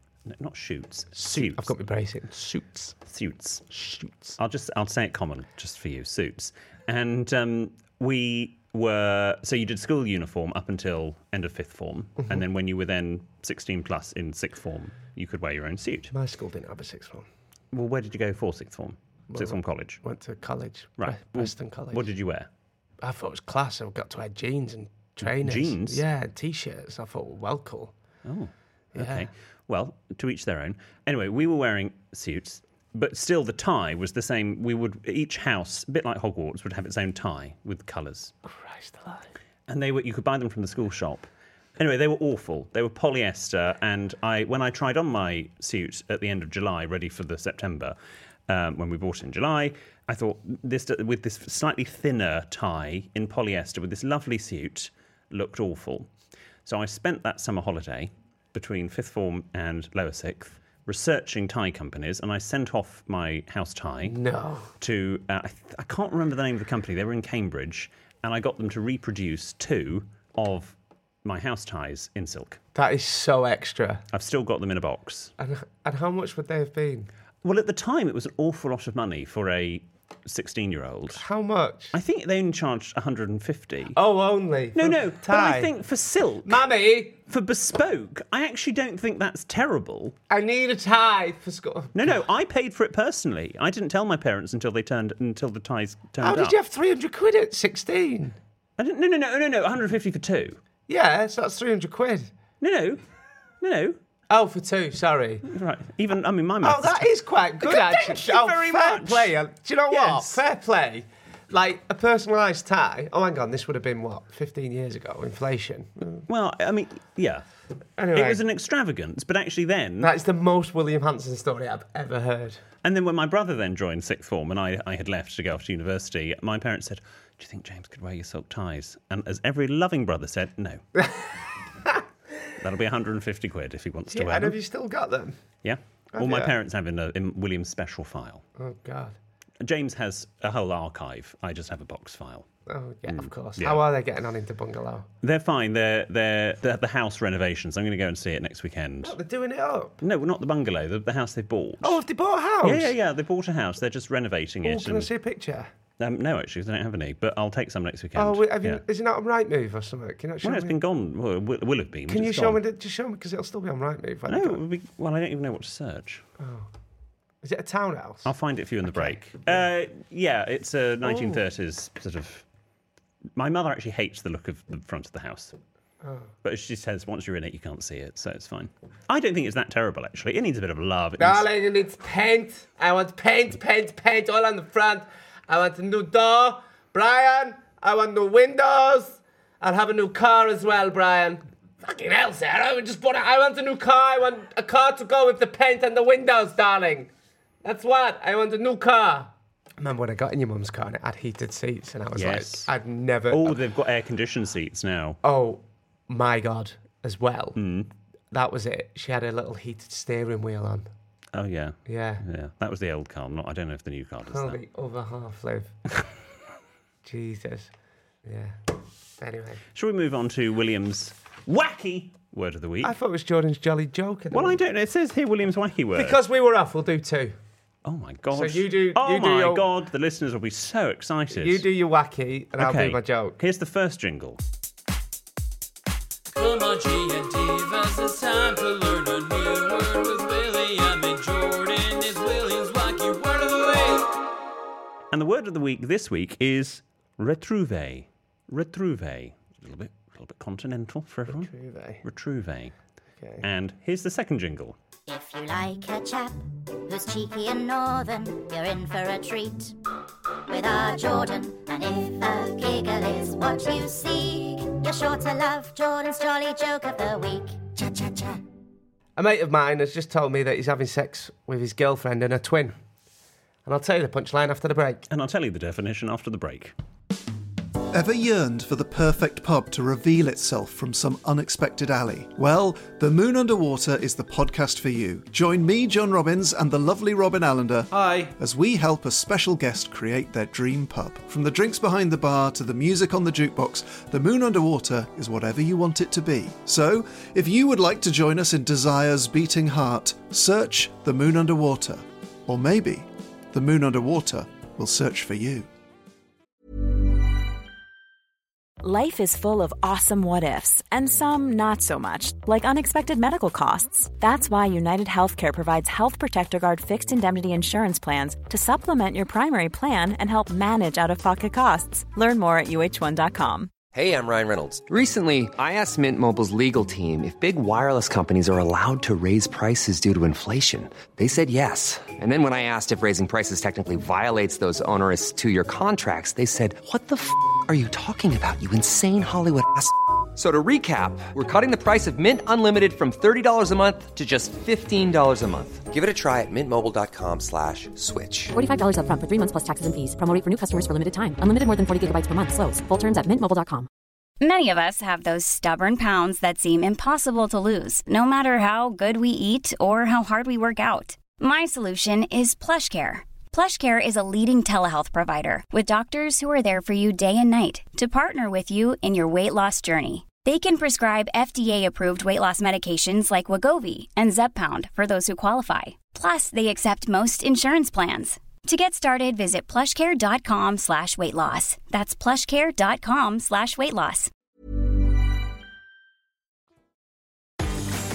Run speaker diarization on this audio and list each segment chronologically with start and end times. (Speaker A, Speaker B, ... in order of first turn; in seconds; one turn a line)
Speaker A: 0.3-1.7
Speaker B: 1.2-3.0
Speaker A: 3.1-3.7
Speaker B: 3.7-4.4
Speaker A: 4.4-16.1
Speaker B: 16.1-17.3
Speaker A: 17.7-20.0
Speaker B: 19.3-22.1
Speaker A: 21.0-22.5
Speaker B: 23.0-27.9
Speaker A: 25.2-26.0
Speaker A: 28.2-38.3
Speaker B: 28.9-29.3
Speaker B: 38.5-39.3
Speaker A: 39.7-48.0
Speaker A: 48.5-56.1
Speaker A: 56.6-64.2
Speaker B: 64.0-64.7
Speaker A: 64.8-72.6
Speaker B: 72.8-74.0
Speaker A: 74.1-75.3
Speaker B: 75.4-77.1
Speaker A: 77.4-81.2
Speaker B: 81.2-82.0
Speaker A: 81.9-84.0
Speaker B: 83.9-85.7
Speaker A: 84.8-86.6
Speaker B: 86.5-87.2
Speaker A: 87.3-90.2
Speaker B: 90.3-92.2
Speaker A: 91.9-96.6
Speaker B: 96.2-98.4
Speaker A: 98.8-100.6
Speaker B: 100.9-102.3
Speaker A: 102.6-103.0
Speaker A: 103.6-104.0
Speaker B: 104.3-105.5
Speaker A: 105.5-107.1
Speaker B: 106.6-116.2
Speaker A: 107.6-109.3
Speaker A: 109.9-110.4
Speaker A: 116.3-117.4
Speaker B: 118.0-118.4
Speaker A: 118.1-120.1
Speaker B: 120.0-122.6
Speaker A: 122.8-130.8
Speaker A: 132.6-134.6
Speaker B: 134.1-135.4
Speaker A: 135.6-138.4
Speaker B: 136.1-136.5
Speaker B: 138.6-139.2
Speaker A: 139.6-142.5
Speaker B: 142.7-145.1
Speaker A: 143.1-143.8
Speaker A: 145.2-149.2
Speaker B: 149.0-150.0
Speaker A: 150.0-152.0
Speaker B: 151.8-152.9
Speaker A: 152.6-155.1
Speaker B: 154.6-155.7
Speaker A: 156.0-158.8
Speaker B: 158.2-160.8
Speaker A: 160.4-162.6
Speaker B: 162.1-164.6
Speaker A: 164.3-166.2
Speaker B: 166.4-166.7
Speaker B: 167.4-168.3
Speaker A: 168.2-172.5
Speaker B: 171.0-171.4
Speaker A: 173.4-175.6
Speaker B: 176.0-176.3
Speaker A: 176.4-181.5
Speaker B: 181.2-197.1
Speaker B: 197.6-203.6
Speaker A: 202.2-202.7
Speaker A: 203.3-205.2
Speaker B: 205.2-207.6
Speaker A: 207.6-207.9
Speaker B: 208.3-210.9
Speaker A: 211.3-214.6
Speaker B: 211.9-212.2
Speaker B: 214.3-215.8
Speaker B: 217.0-217.7
Speaker B: 218.2-218.6
Speaker B: 219.2-219.6
Speaker A: 219.7-222.9
Speaker B: 222.8-224.6
Speaker A: 224.3-226.2
Speaker B: 225.9-227.3
Speaker A: 227.8-231.7
Speaker B: 228.3-229.7
Speaker B: 231.3-233.4
Speaker A: 232.6-234.4
Speaker C: 236.3-244.2
Speaker A: 245.1-251.5
Speaker B: 251.3-252.0
Speaker A: 252.0-252.8
Speaker B: 253.2-253.4
Speaker A: 253.4-254.8
Speaker D: 255.1-259.8
Speaker D: 260.5-268.4
Speaker B: 269.2-272.8
Speaker B: 273.6-275.1
Speaker A: 275.1-276.7
Speaker E: 277.9-305.7
Speaker C: 287.9-288.3
Speaker F: 308.8-323.7
Speaker G: 323.9-348.6
Speaker H: 348.6-353.9
Speaker I: 354.4-384.3